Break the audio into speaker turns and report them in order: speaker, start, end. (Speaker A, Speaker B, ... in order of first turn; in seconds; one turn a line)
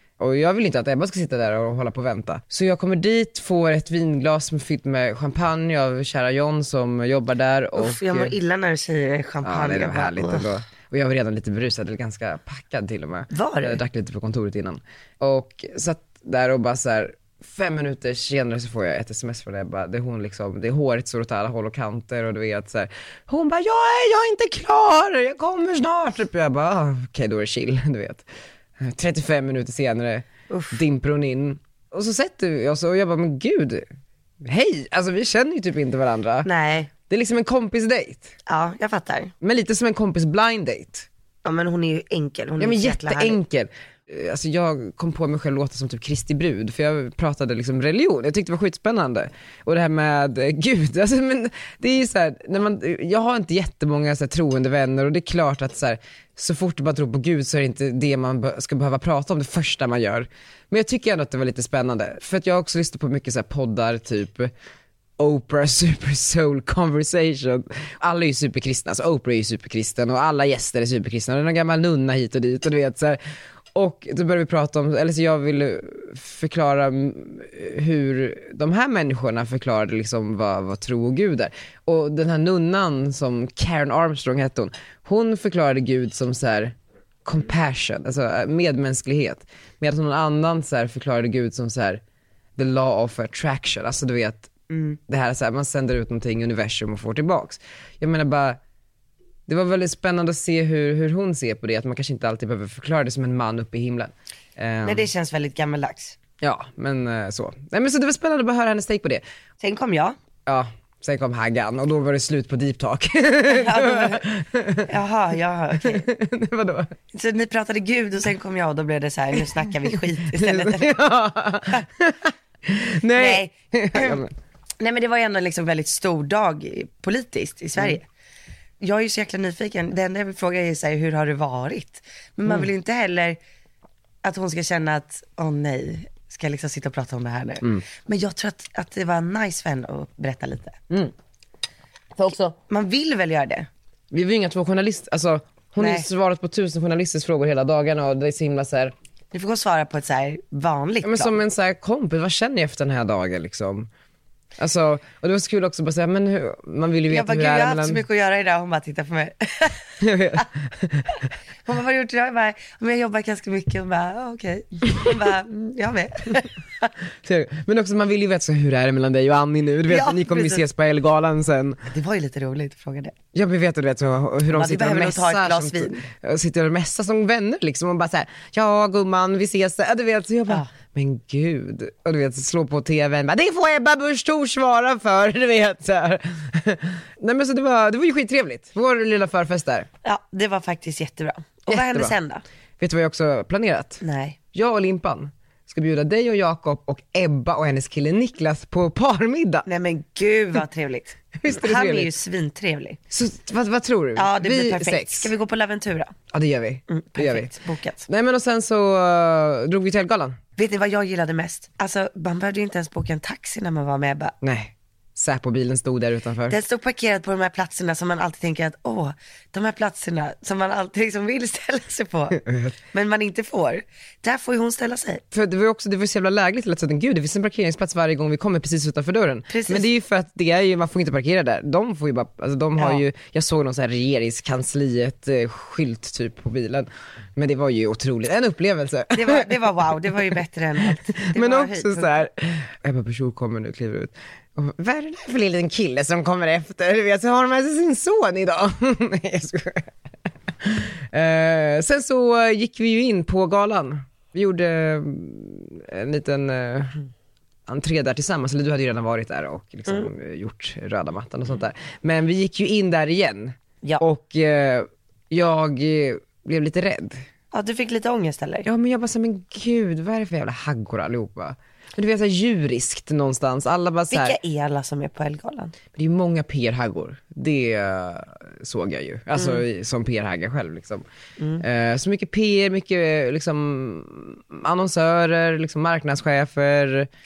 Speaker A: 0.2-8.3
Speaker B: 7.8-10.5
Speaker A: 9.4-28.2
Speaker B: 13.3-13.8
Speaker A: 28.8-33.9
Speaker B: 30.5-30.8
Speaker A: 34.4-36.5
Speaker B: 36.4-36.9
Speaker A: 37.1-38.3
Speaker B: 38.5-39.3
Speaker A: 39.4-41.1
Speaker B: 41.4-43.4
Speaker A: 42.6-64.5
Speaker A: 65.2-73.2
Speaker A: 73.7-92.0
Speaker A: 92.6-94.5
Speaker B: 94.7-95.0
Speaker A: 95.1-98.6
Speaker A: 99.5-105.0
Speaker B: 104.8-106.2
Speaker A: 106.4-109.2
Speaker B: 109.6-110.2
Speaker A: 110.5-114.9
Speaker B: 113.5-114.2
Speaker B: 114.9-116.0
Speaker A: 115.8-116.9
Speaker B: 117.1-121.0
Speaker A: 120.2-124.3
Speaker B: 123.1-124.2
Speaker B: 124.8-128.1
Speaker B: 128.8-133.4
Speaker B: 134.2-140.8
Speaker A: 142.2-142.6
Speaker B: 142.7-143.7
Speaker A: 144.1-148.9
Speaker B: 145.8-146.1
Speaker B: 149.3-151.3
Speaker A: 151.0-153.9
Speaker A: 154.6-158.0
Speaker B: 157.1-159.8
Speaker A: 160.0-161.2
Speaker B: 161.6-166.9
Speaker A: 167.2-171.8
Speaker B: 169.9-170.6
Speaker B: 171.9-173.2
Speaker A: 173.3-189.9
Speaker B: 174.5-176.1
Speaker B: 190.0-192.4
Speaker A: 191.7-192.1
Speaker A: 192.8-194.0
Speaker B: 194.0-194.4
Speaker A: 194.5-199.7
Speaker B: 199.7-203.0
Speaker A: 201.4-202.1
Speaker A: 203.1-205.3
Speaker B: 204.2-206.1
Speaker A: 206.3-207.5
Speaker B: 206.9-208.1
Speaker A: 208.1-210.4
Speaker B: 210.6-214.3
Speaker A: 214.4-216.6
Speaker B: 216.5-222.4
Speaker A: 222.3-222.7
Speaker B: 222.9-225.2
Speaker A: 225.3-240.2
Speaker B: 229.5-229.9
Speaker B: 232.8-233.0
Speaker B: 239.1-242.2
Speaker A: 241.2-249.9
Speaker A: 250.6-257.0
Speaker A: 257.7-267.2
Speaker B: 267.5-268.6
Speaker A: 268.6-274.4
Speaker B: 274.1-275.7
Speaker A: 275.9-281.0
Speaker B: 281.4-281.6
Speaker A: 281.6-287.1